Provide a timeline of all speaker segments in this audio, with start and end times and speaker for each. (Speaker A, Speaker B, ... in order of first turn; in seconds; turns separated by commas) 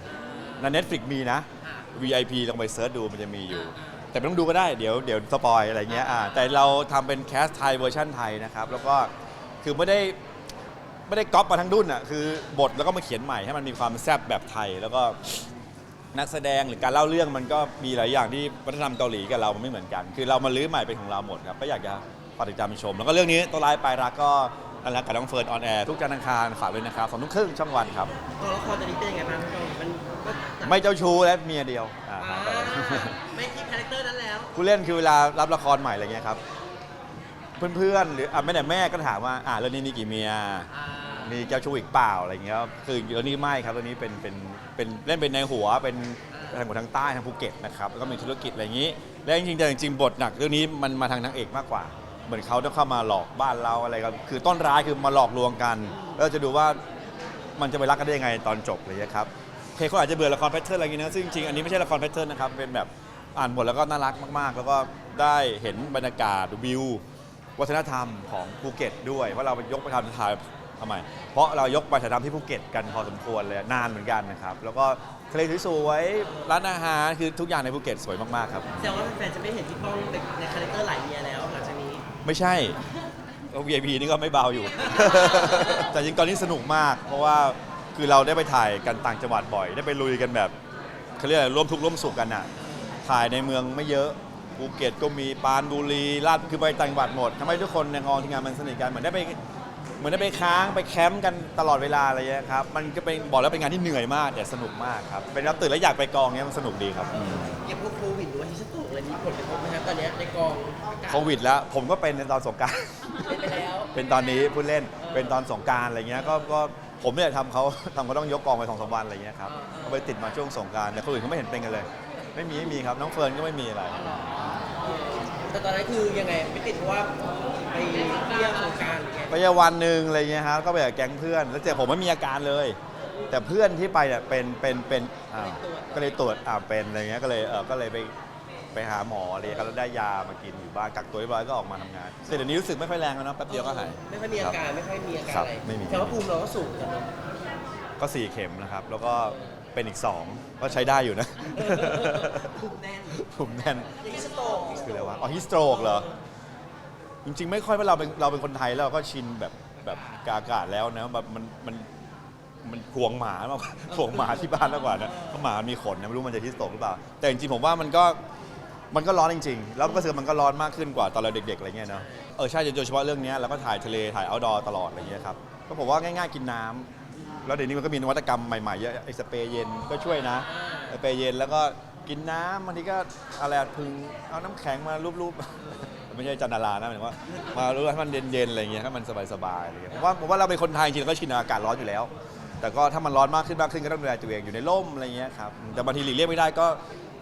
Speaker A: 0.1-0.7, Speaker B: 0.6-10.2, Speaker A: 1.6-1.9, Speaker A: 3.5-4.1, Speaker A: 5.9-6.3, Speaker B: 11.1-15.4, Speaker B: 16.1-28.1, Speaker A: 28.4-30.8, Speaker B: 30.6-33.2, Speaker A: 32.2-34.5, Speaker B: 34.5-36.4, Speaker B: 37.6-40.7, Speaker A: 40.7-41.4, Speaker B: 41.2-56.8, Speaker A: 46.3-46.6, Speaker A: 55.9-56.2, Speaker B: 57.6-67.0, Speaker B: 67.6-79.0, Speaker A: 76.2-76.6, Speaker A: 78.8-82.0, Speaker B: 82.2-82.8, Speaker B: 83.5-90.5, Speaker A: 85.0-85.8, Speaker B: 91.2-92.5, Speaker B: 93.0-99.4, Speaker B: 100.0-107.6, Speaker A: 107.1-111.4, Speaker B: 111.1-124.4, Speaker A: 113.2-113.9, Speaker A: 115.0-115.4, Speaker A: 116.2-116.5, Speaker A: 119.5-120.1, Speaker A: 123.9-129.4, Speaker B: 129.3-132.8, Speaker B: 133.3-138.1, Speaker A: 135.3-136.2, Speaker B: 138.7-144.6, Speaker A: 143.5-147.2, Speaker B: 145.3-146.2, Speaker B: 148.0-156.1, Speaker A: 149.2-149.6, Speaker A: 151.5-153.2, Speaker A: 154.0-156.1, Speaker B: 157.2-161.9, Speaker B: 162.6-168.2, Speaker A: 164.1-165.4, Speaker B: 168.9-176.9, Speaker B: 177.4-196.8, Speaker A: 180.5-180.9